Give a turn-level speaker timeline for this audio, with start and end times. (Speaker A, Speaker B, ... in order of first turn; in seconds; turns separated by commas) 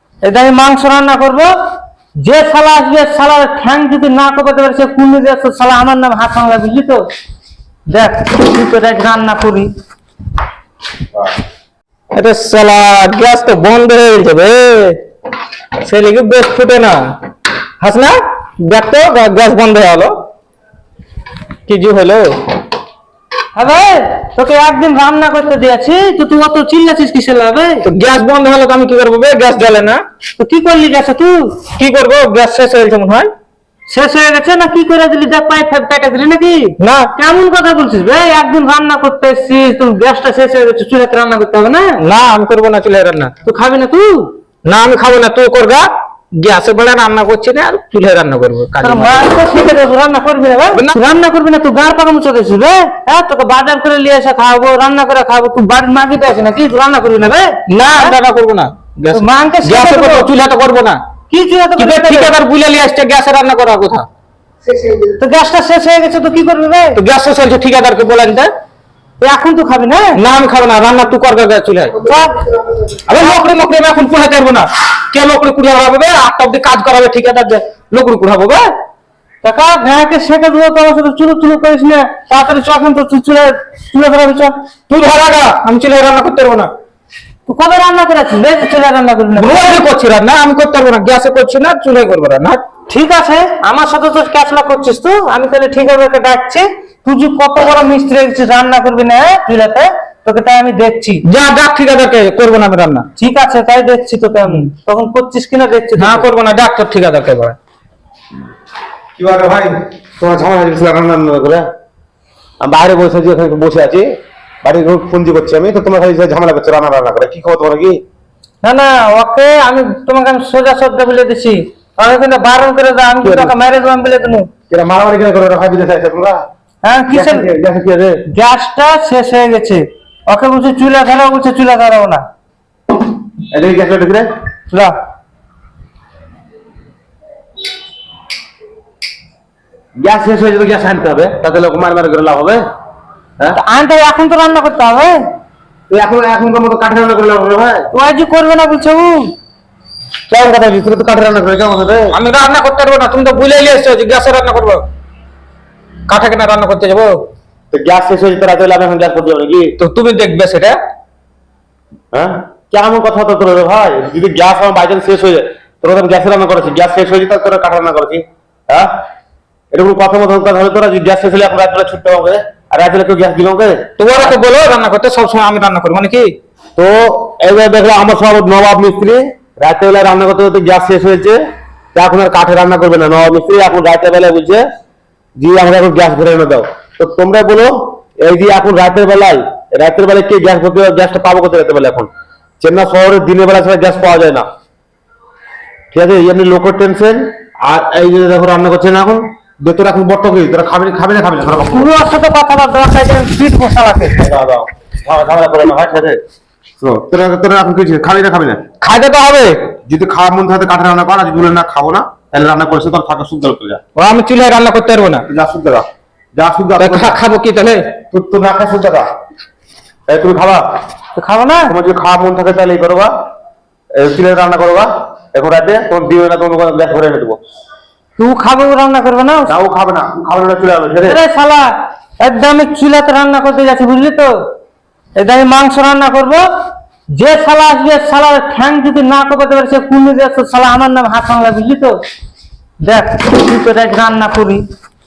Speaker A: 0.2-1.5, Speaker A: 2.2-7.0, Speaker A: 7.9-9.7, Speaker B: 12.1-15.0, Speaker B: 15.8-17.1, Speaker B: 17.8-20.2, Speaker B: 21.7-22.4, Speaker A: 23.6-27.8, Speaker B: 27.9-30.0, Speaker A: 30.4-31.6, Speaker B: 31.7-33.3, Speaker A: 33.9-42.0, Speaker B: 36.8-37.1, Speaker B: 42.0-43.3, Speaker A: 43.4-44.3, Speaker B: 44.7-49.2, Speaker A: 48.8-58.1, Speaker B: 57.7-61.0, Speaker A: 59.1-60.3, Speaker A: 61.3-62.4, Speaker B: 61.8-64.1, Speaker A: 64.9-67.0, Speaker B: 67.0-68.5, Speaker A: 69.2-70.2, Speaker B: 70.2-72.0, Speaker A: 72.1-72.4, Speaker B: 73.1-78.7, Speaker A: 79.4-84.5, Speaker B: 84.9-86.7, Speaker A: 87.5-89.8, Speaker B: 89.4-92.6, Speaker A: 92.9-101.2, Speaker B: 101.2-103.1, Speaker A: 103.2-106.3, Speaker B: 106.0-107.6, Speaker C: 109.2-111.7, Speaker C: 112.6-114.1, Speaker C: 114.6-118.0, Speaker A: 118.6-124.5, Speaker C: 123.2-123.5, Speaker C: 124.7-126.4, Speaker A: 126.8-127.5, Speaker C: 127.1-128.2, Speaker A: 128.3-132.2, Speaker C: 133.5-134.3, Speaker C: 140.0-142.6, Speaker A: 143.6-145.2, Speaker C: 145.9-147.9, Speaker A: 147.9-149.3, Speaker C: 150.3-152.2, Speaker B: 152.1-154.8, Speaker B: 156.1-157.2, Speaker C: 157.7-159.7, Speaker B: 159.8-160.8, Speaker C: 162.1-168.9, Speaker C: 169.7-173.8, Speaker B: 174.0-176.3, Speaker C: 176.8-181.4, Speaker C: 181.9-184.6, Speaker C: 185.4-192.1, Speaker C: 192.6-194.5, Speaker C: 195.9-201.9, Speaker A: 201.7-204.2, Speaker C: 204.2-206.2, Speaker C: 206.8-208.6, Speaker B: 208.8-209.7, Speaker C: 209.8-213.8, Speaker B: 214.0-215.3, Speaker C: 215.3-217.2, Speaker B: 216.8-217.9, Speaker C: 218.1-219.1, Speaker C: 220.1-220.6, Speaker A: 221.2-221.7, Speaker C: 221.7-223.1, Speaker C: 223.9-227.4, Speaker A: 228.2-229.6, Speaker C: 229.5-231.2, Speaker A: 231.0-234.3, Speaker A: 235.2-236.4, Speaker A: 237.2-242.0, Speaker A: 242.8-244.6